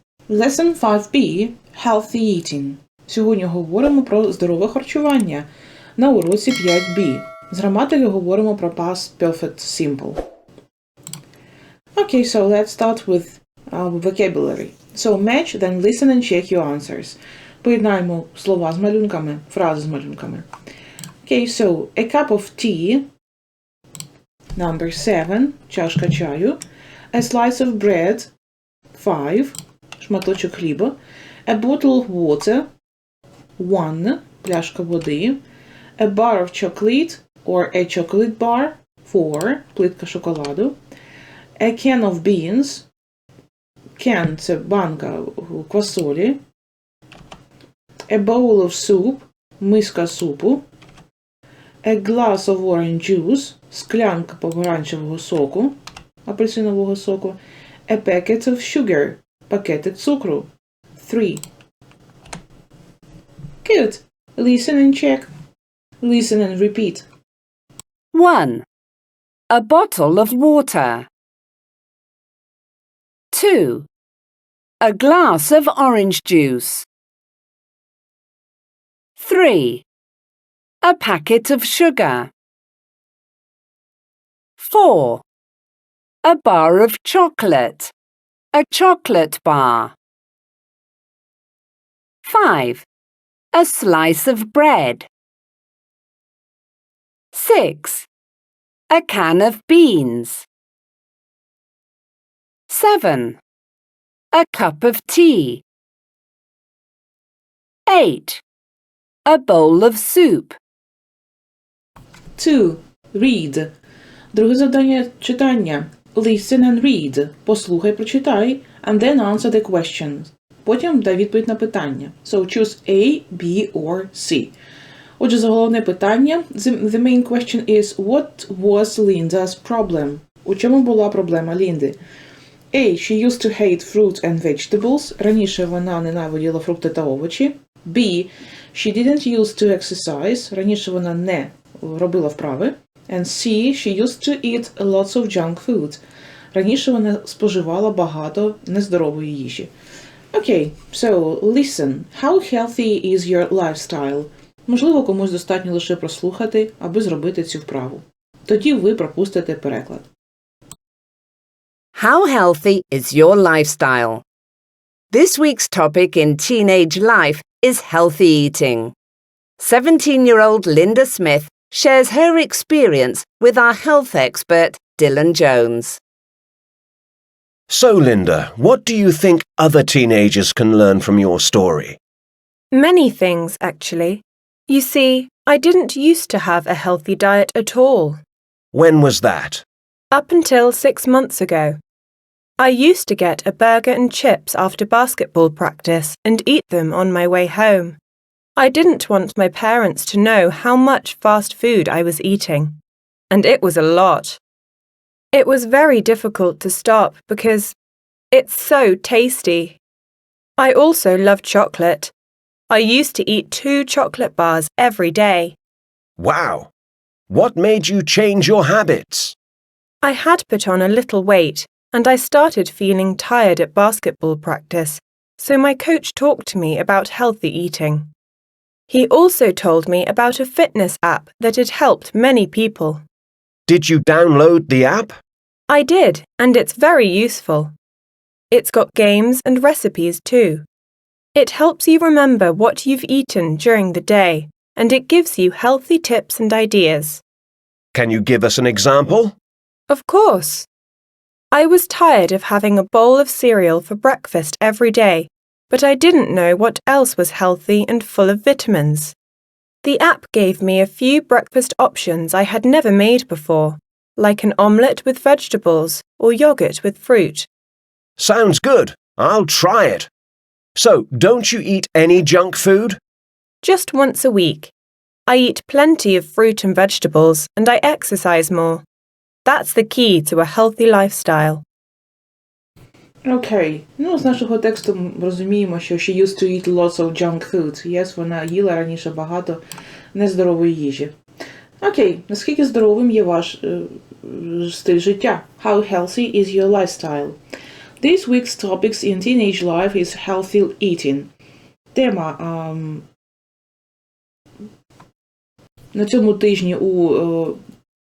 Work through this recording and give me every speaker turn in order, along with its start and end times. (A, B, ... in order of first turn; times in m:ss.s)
0:00.3-0:05.5 A
0:06.0-0:10.2 A
0:12.0-0:20.5 A
0:21.2-0:23.1 A
0:24.6-0:26.6 A
0:27.1-0:28.3 A
0:28.9-0:32.7 A
0:33.6-0:35.4 A
0:36.0-0:40.8 A
0:41.6-0:42.9 A
0:44.0-0:46.4 A
0:48.1-0:50.6 A
0:51.8-1:01.4 A
1:03.6-1:05.3 A
1:06.0-1:07.0 A
1:08.1-1:08.7 B
1:09.5-1:11.1 B
1:13.3-1:13.9 B
1:14.8-1:16.9 B
1:19.2-1:19.8 B
1:20.8-1:22.3 B
1:24.6-1:25.2 B
1:26.2-1:27.9 B
1:28.5-1:30.0 B
1:32.2-1:32.9 B
1:33.5-1:35.1 B
1:37.3-1:38.1 B
1:38.9-1:40.5 B
1:42.7-1:43.4 B
1:44.3-1:45.6 B
1:47.9-1:48.4 B
1:49.3-1:50.6 B
1:52.4-1:53.7 A
1:54.3-2:04.5 A
2:05.2-2:12.0 A
2:12.7-2:26.0 A
2:26.5-2:29.7 A
2:30.3-2:40.1 A
2:42.0-2:44.2 B
2:45.1-2:49.0 B
2:49.6-2:56.0 B
2:57.7-3:02.0 C
3:02.7-3:08.2 D
3:08.7-3:09.6 C
3:10.1-3:11.8 D
3:12.6-3:18.0 D
3:18.6-3:22.8 D
3:23.3-3:24.4 D
3:25.3-3:27.8 D
3:28.3-3:29.8 D
3:30.6-3:32.1 D
3:32.7-3:35.6 D
3:36.2-3:36.7 C
3:37.3-3:39.4 C
3:40.0-3:48.1 D
3:48.9-3:53.0 D
3:53.7-3:55.2 C
3:55.7-3:57.7 D
3:58.5-4:00.6 D
4:01.4-4:07.2 D
4:07.9-4:09.4 C
4:09.9-4:10.7 D
4:11.5-4:19.2 D
4:19.8-4:27.5 D
4:28.2-4:30.1 C
4:30.8-4:33.0 C
4:33.6-4:34.7 D
4:35.3-4:38.8 D
4:39.4-4:41.6 D
4:43.2-4:49.6 A
4:50.1-4:51.1 A
4:51.8-4:57.4 A
4:58.0-5:01.3 A
5:01.9-5:03.0 A
5:05.9-5:07.6 A